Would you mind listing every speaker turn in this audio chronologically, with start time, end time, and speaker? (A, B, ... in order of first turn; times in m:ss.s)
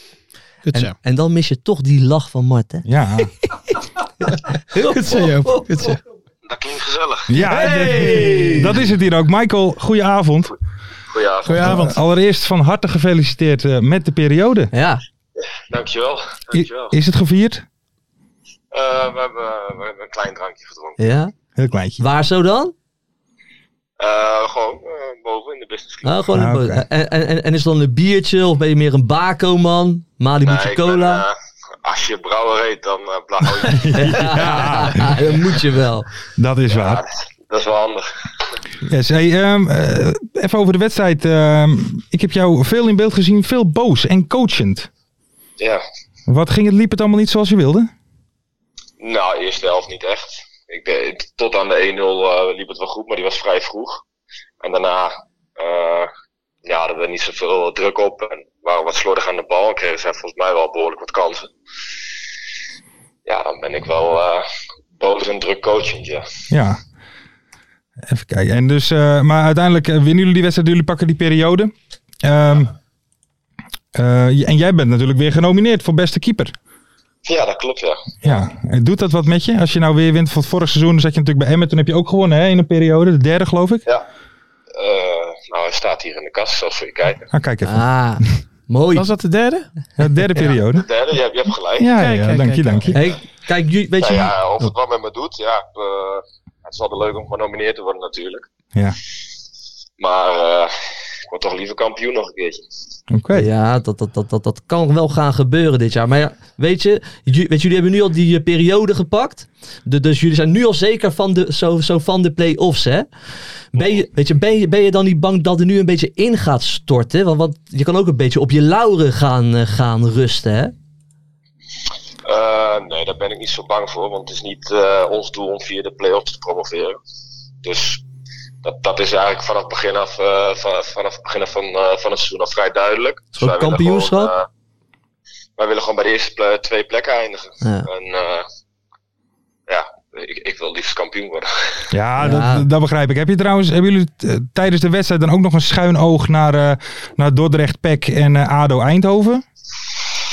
0:00.6-0:00.9 A
0:00.7-0:06.0 B
0:02.8-0:03.3 C
0:04.8-0:06.0 A
0:06.5-0:07.2 D
0:07.3-0:10.5 C
0:07.4-0:08.8 B
0:11.1-0:11.8 D
0:11.4-0:12.0 A
0:11.6-0:14.7 C
0:14.7-0:15.0 B
0:15.7-0:16.9 D
0:16.5-0:17.6 C
0:18.7-0:21.0 D
0:21.0-0:21.3 B
0:21.6-0:22.0 C
0:22.0-0:22.7 B
0:24.0-0:26.2 D
0:26.0-0:31.2 B
0:26.3-0:26.8 C
0:30.4-0:31.3 D
0:31.8-0:34.5 D
0:33.6-0:35.4 C
0:33.9-0:36.1 B
0:36.4-0:37.0 C
0:36.7-0:38.0 D
0:38.8-0:44.9 C
0:46.3-0:47.9 C
0:49.0-0:54.0 D
0:54.6-0:56.1 D
0:56.6-1:01.5 D
1:03.2-1:04.4 D
1:05.0-1:06.3 D
1:06.5-1:06.8 C
1:08.0-1:12.7 C
1:13.9-1:16.5 C
1:17.3-1:18.4 D
1:18.2-1:23.8 C
1:24.8-1:27.3 D
1:27.3-1:27.9 C
1:27.6-1:29.1 B
1:28.9-1:29.7 A
1:30.0-1:30.9 C
1:30.7-1:31.9 D
1:31.8-1:33.0 C
1:32.0-1:32.9 A
1:32.9-1:34.7 B
1:34.0-1:38.4 D
1:40.0-1:40.7 D
1:41.3-1:42.6 D
1:43.1-1:43.5 C
1:43.3-1:53.1 B
1:53.7-2:00.7 B
2:02.2-2:07.0 D
2:07.6-2:08.0 D
2:08.6-2:14.4 D
2:13.4-2:14.3 B
2:15.6-2:18.4 D
2:17.6-2:17.9 B
2:19.7-2:21.8 D
2:21.9-2:29.4 C
2:22.2-2:22.7 B